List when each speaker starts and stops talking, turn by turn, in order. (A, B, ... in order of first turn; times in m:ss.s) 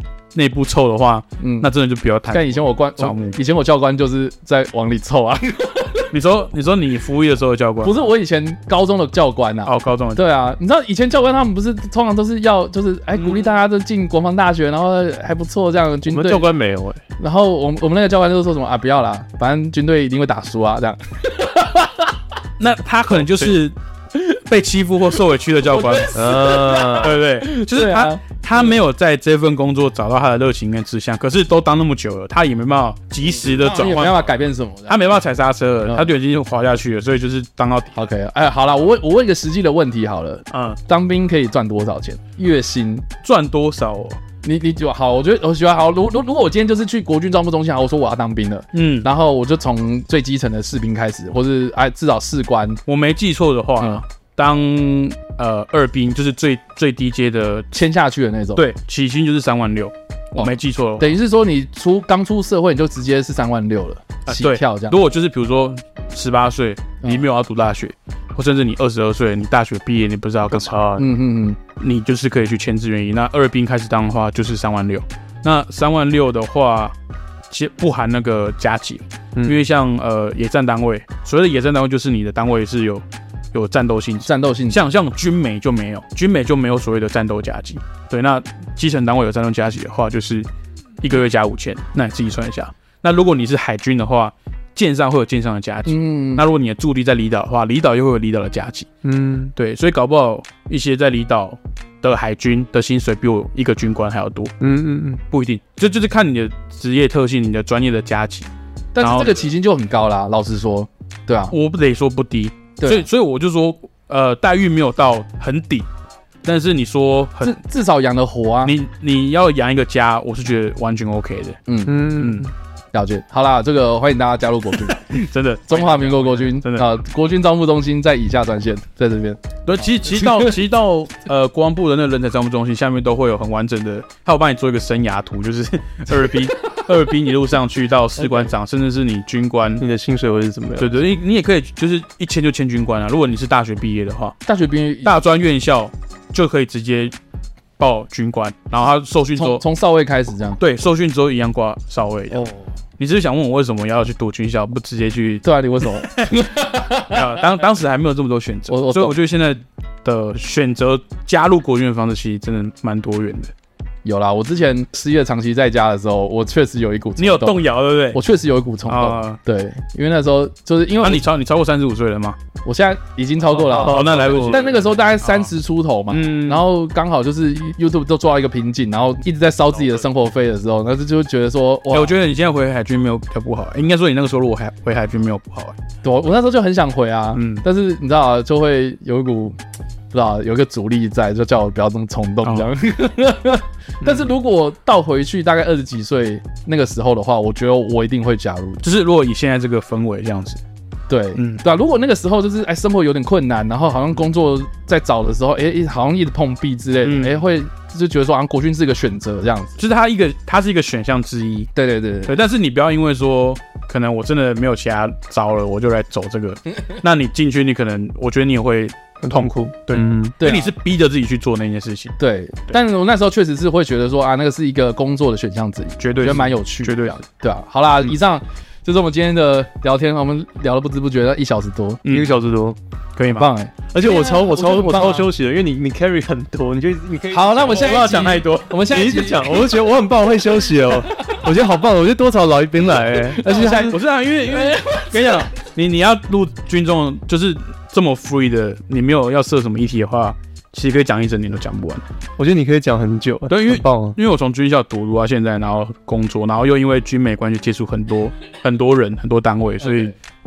0:00.3-0:03.4 A
0:01.4-0:01.7 B
0:02.3-0:06.1 B
0:06.1-0:07.9 A
0:07.8-0:16.5 B
0:09.6-0:10.2 A
0:16.1-0:17.0 C
0:17.2-0:22.1 B
0:22.6-0:26.4 A
0:25.7-0:28.7 B
0:26.1-0:27.2 C
0:27.0-0:34.2 A
0:33.3-0:35.0 B
0:34.9-0:37.9 A
0:37.9-0:43.1 B
0:40.5-0:40.8 A
0:43.2-0:44.2 A
0:44.4-0:52.8 B
0:48.7-0:49.1 A
0:52.9-0:57.7 A
0:57.7-0:58.6 B
0:58.6-1:01.1 A
1:00.4-1:05.0 B
1:04.3-1:11.0 A
1:10.5-1:11.0 C
1:11.0-1:11.6 B
1:11.8-1:16.9 A
1:17.5-1:30.5 A
1:19.3-1:19.6 C
1:24.2-1:24.8 B
1:31.0-1:38.9 A
1:35.9-1:36.4 B
1:39.0-1:39.5 C
1:39.5-1:44.5 A
1:44.6-1:45.2 C
1:45.3-1:48.5 A
1:48.9-1:51.5 B
1:49.0-1:49.5 A
1:51.5-1:55.9 A
1:52.8-1:53.1 B
1:56.4-1:57.6 A
1:57.4-1:58.7 B
1:58.6-2:01.6 A
2:01.7-2:02.0 B
2:01.8-2:02.5 C
2:02.2-2:02.5 A
2:02.9-2:10.5 B
2:04.9-2:06.9 A
2:09.6-2:19.8 A
2:19.8-2:21.0 C
2:20.8-2:24.4 A
2:24.4-2:25.2 B
2:25.0-2:27.1 A
2:27.8-2:29.6 A
2:29.4-2:30.6 B
2:30.6-2:32.4 A
2:32.3-2:32.6 B
2:33.0-2:35.4 A
2:35.4-2:37.4 B
2:36.0-2:36.3 A
2:37.0-2:43.5 A
2:38.7-2:39.1 B
2:44.0-2:47.6 B
2:47.2-2:48.2 A
2:48.1-2:51.2 B
2:48.9-2:49.4 A
2:51.0-2:52.4 A
2:52.6-3:02.1 B
2:53.5-2:54.7 C
2:53.7-2:55.5 A
2:56.1-2:56.6 A
3:01.9-3:05.8 A
3:06.0-3:09.6 B
3:07.3-3:07.6 A
3:10.1-3:18.8 B
3:12.4-3:12.7 A
3:18.8-3:20.6 A
3:21.1-3:29.8 B
3:21.4-3:21.6 A
3:27.0-3:27.4 A
3:29.8-3:31.7 A
3:31.7-3:32.3 B
3:32.2-3:42.1 A
3:39.2-3:40.4 C
3:40.4-3:40.7 B
3:42.2-3:52.0 B
3:46.0-3:47.2 A
3:52.0-3:52.3 A
3:52.1-3:52.8 C
3:53.2-3:53.5 A
3:53.3-3:55.3 B
3:53.9-3:58.3 C
3:57.3-3:59.7 B
3:57.7-3:58.8 A
3:58.9-4:04.0 C
4:03.3-4:05.3 B
4:03.5-4:12.0 A
4:12.4-4:14.2 C
4:13.5-4:20.1 A
4:19.8-4:20.1 B